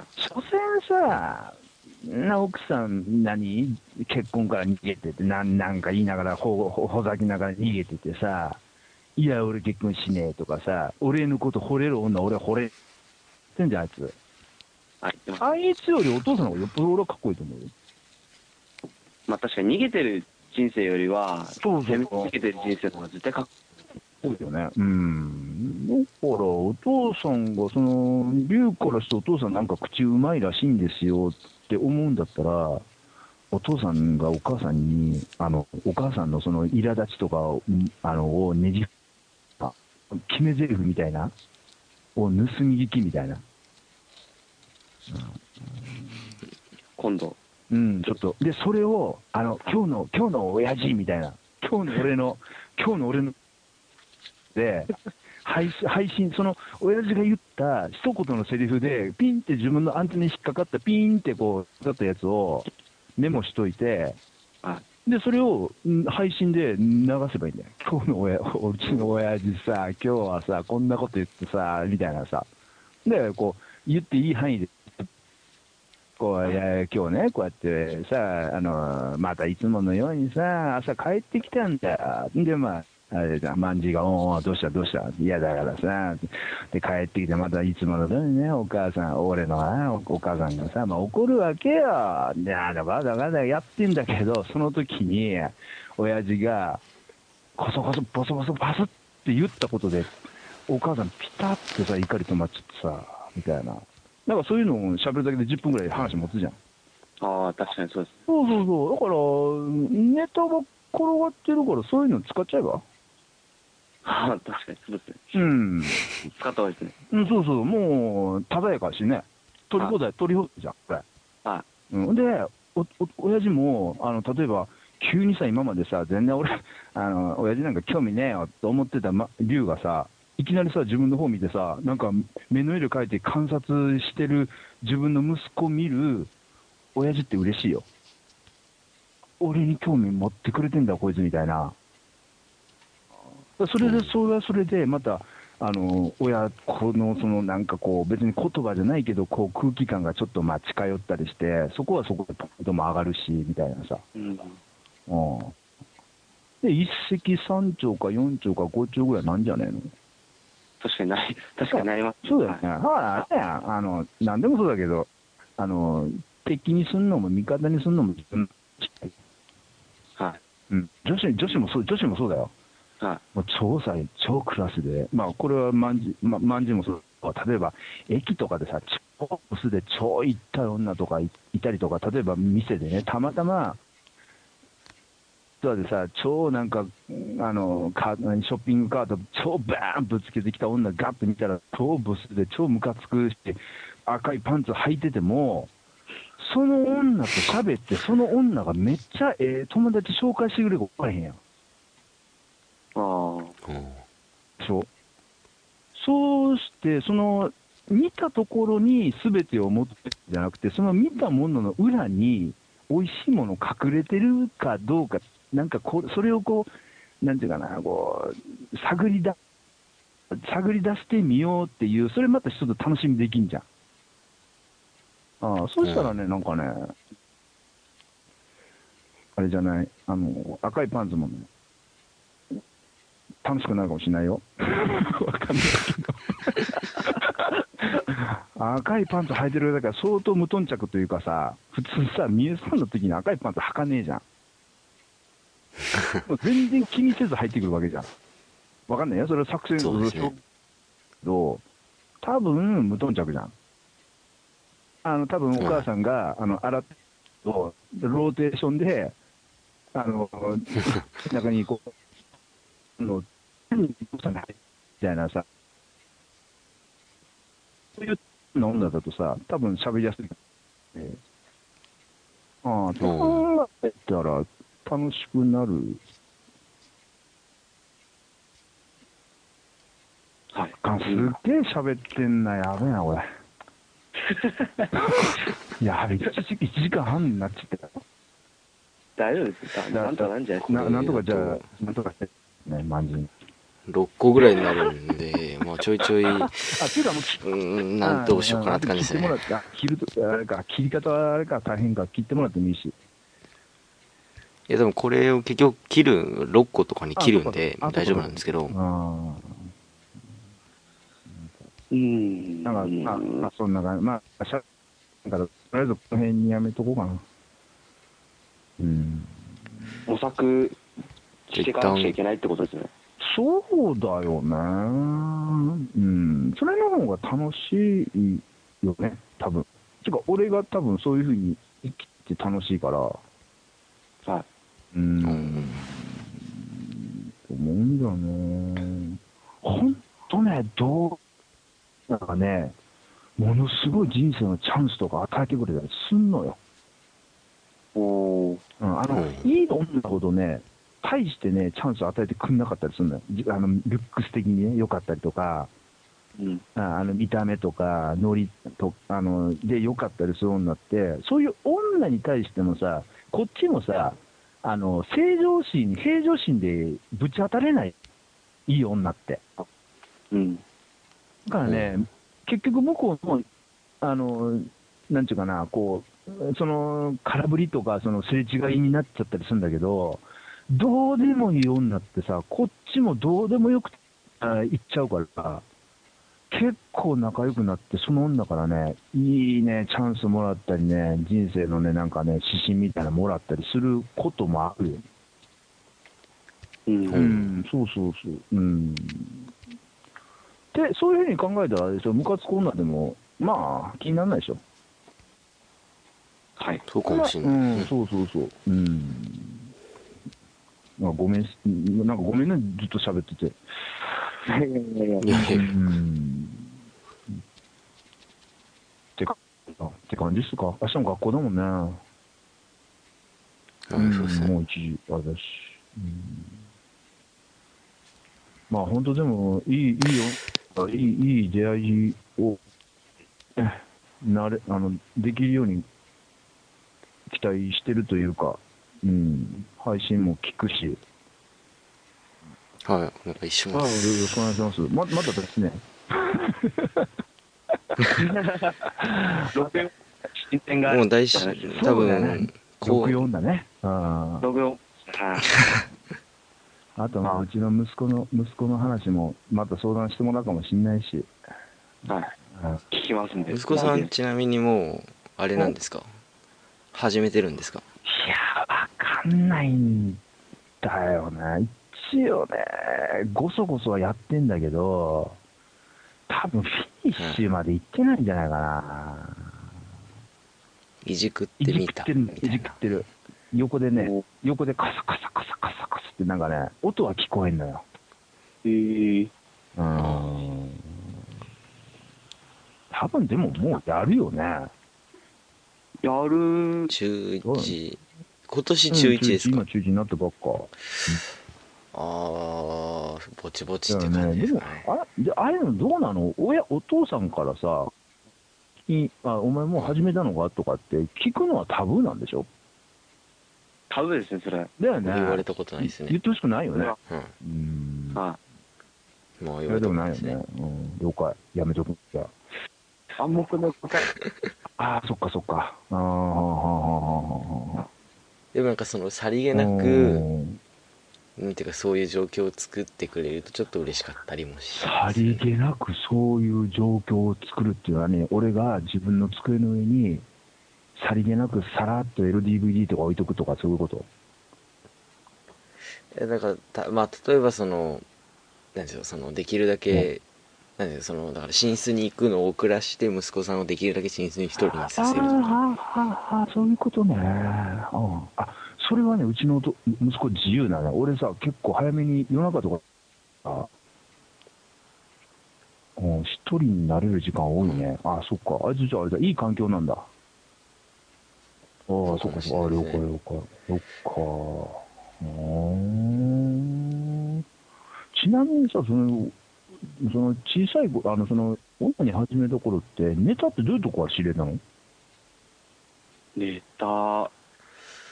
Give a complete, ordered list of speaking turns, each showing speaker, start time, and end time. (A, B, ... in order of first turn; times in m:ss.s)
0:00.2-0:08.6 A
0:09.2-0:12.7 A
0:13.6-0:14.2 A
0:15.0-0:15.5 B
0:15.4-0:17.7 A
0:19.3-0:23.5 B
0:21.6-0:22.3 A
0:24.2-0:32.9 A
0:33.5-0:38.9 A
0:39.6-0:41.3 A
0:42.2-0:43.4 A
0:45.1-0:46.2 A
0:47.0-0:47.4 B
0:47.7-0:53.4 A
0:54.5-1:04.2 A
1:05.0-1:12.5 A
1:13.0-1:15.1 A
1:16.2-1:36.8 A
1:37.6-1:40.1 A
1:40.7-1:46.6 A
1:45.9-1:46.3 C
1:47.2-1:48.1 B
1:48.3-1:52.8 A
1:54.0-1:55.3 B
1:55.3-1:56.1 A
1:56.3-1:56.9 B
1:57.1-2:01.0 A
2:01.9-2:16.3 A
2:17.0-2:17.9 A
2:19.4-2:21.8 A
2:23.6-2:34.0 A
2:23.8-2:24.1 C
2:34.2-2:34.6 B
2:35.1-2:35.6 A
2:36.6-2:39.9 A
2:40.8-2:42.6 B
2:41.7-2:49.1 A
2:50.7-2:52.5 A
2:53.4-3:03.8 A
3:05.6-3:15.7 A
3:16.4-3:21.4 A
3:23.0-3:23.6 B
3:23.6-3:24.0 C
3:24.6-3:24.9 A
3:26.0-3:36.7 A
3:37.2-3:39.4 A
3:40.3-3:43.7 A
3:45.4-3:46.9 A
3:45.8-3:46.2 C
3:49.4-3:51.5 A
3:53.4-4:04.2 A
4:06.2-4:08.1 A
4:08.9-4:10.4 A
4:09.8-4:10.3 C
4:11.2-4:11.6 A
4:12.2-4:13.5 A
4:15.0-4:19.2 A
4:15.6-4:15.9 C
4:19.9-4:21.9 A
4:23.0-4:25.4 A
4:28.0-4:30.4 A
4:30.9-4:31.2 A
4:32.6-4:36.0 A
4:33.0-4:33.5 C
4:40.5-4:41.3 B
4:40.8-4:43.3 A
4:44.2-4:44.9 B
4:45.0-4:48.0 A
4:49.2-4:51.2 B
4:49.9-4:53.3 A
4:50.8-4:51.7 C
4:53.9-4:56.8 C
4:56.4-4:57.5 A
4:57.4-4:59.4 C
4:58.0-5:03.0 A
5:04.7-5:08.8 C
5:07.2-5:09.7 A
5:11.3-5:11.6 A
5:11.9-5:13.5 B
5:12.6-5:14.6 A
5:15.2-5:17.2 A
5:18.8-5:19.4 A
5:20.1-5:20.8 B
5:21.5-5:22.9 B
5:21.5-5:22.2 C
5:23.2-5:33.2 A
5:34.9-5:41.2 A
5:35.2-5:35.9 C
5:42.1-5:42.8 A
5:43.4-5:46.6 A
5:48.0-5:48.6 B
5:48.8-5:55.7 A
5:49.1-5:49.5 C
5:56.4-5:56.6 B
5:56.8-6:08.0 A
6:08.7-6:09.4 A
6:10.3-6:10.6 B
6:11.5-6:13.5 A
6:11.6-6:12.0 C
6:14.0-6:25.6 A
6:26.5-6:35.0 A
6:36.9-6:37.2 B
6:37.1-6:37.6 C
6:37.1-6:39.5 A
6:40.7-6:44.6 A
6:46.6-6:46.9 B
6:46.9-6:47.9 C
6:47.1-6:49.7 A
6:51.0-6:53.6 A
6:54.5-6:55.4 B
6:55.2-6:55.8 C
6:55.3-6:56.7 A
6:59.2-7:02.0 A
7:03.9-7:04.5 C
7:03.9-7:06.6 A
7:08.7-7:12.6 A
7:13.6-7:15.8 A
7:17.3-7:21.0 A
7:22.8-7:24.1 C
7:23.7-7:27.1 A
7:28.1-7:28.8 B
7:29.0-7:29.5 A
7:29.5-7:32.1 B
7:30.8-7:33.2 C
7:31.7-7:34.5 A
7:34.4-7:35.5 B
7:37.0-7:41.3 A
7:42.1-7:42.3 B
7:42.5-7:42.8 A
7:42.9-7:44.1 B
7:43.5-7:46.1 C
7:46.9-7:47.8 C
7:48.0-7:50.2 A
7:50.8-7:55.4 A
7:56.3-7:59.6 A
7:57.2-7:57.4 C
8:01.0-8:02.8 C
8:01.6-8:07.8 A
8:04.0-8:04.2 B
8:08.6-8:09.3 B
8:09.8-8:11.1 A
8:10.0-8:10.4 C
8:12.9-8:14.7 A
8:16.0-8:16.9 B
8:16.9-8:19.6 C
8:17.4-8:17.8 A
8:18.9-8:21.2 A
8:21.9-8:24.9 C
8:23.9-8:27.9 A
8:28.9-8:32.5 A
8:29.8-8:30.1 C
8:33.9-8:34.7 B
8:34.8-8:38.2 A
8:35.0-8:36.2 C
8:37.1-8:37.3 C
8:38.1-8:38.4 B
8:39.4-8:40.4 C
8:39.7-8:42.3 A
8:43.2-8:44.1 B
8:44.1-8:44.5 C
8:44.8-8:47.8 A
8:48.5-8:50.3 C
8:49.5-8:50.6 A
8:51.4-8:55.4 C
8:54.7-9:00.2 A
9:01.0-9:04.1 A
9:06.1-9:08.0 C
9:08.8-9:10.2 C
9:10.8-9:15.6 C
9:14.6-9:22.8 A
9:23.4-9:23.7 A
9:26.0-9:30.1 A
9:27.6-9:27.9 C
9:31.9-9:37.4 A
9:32.1-9:33.0 C
9:38.1-9:44.6 A
9:46.4-9:47.3 B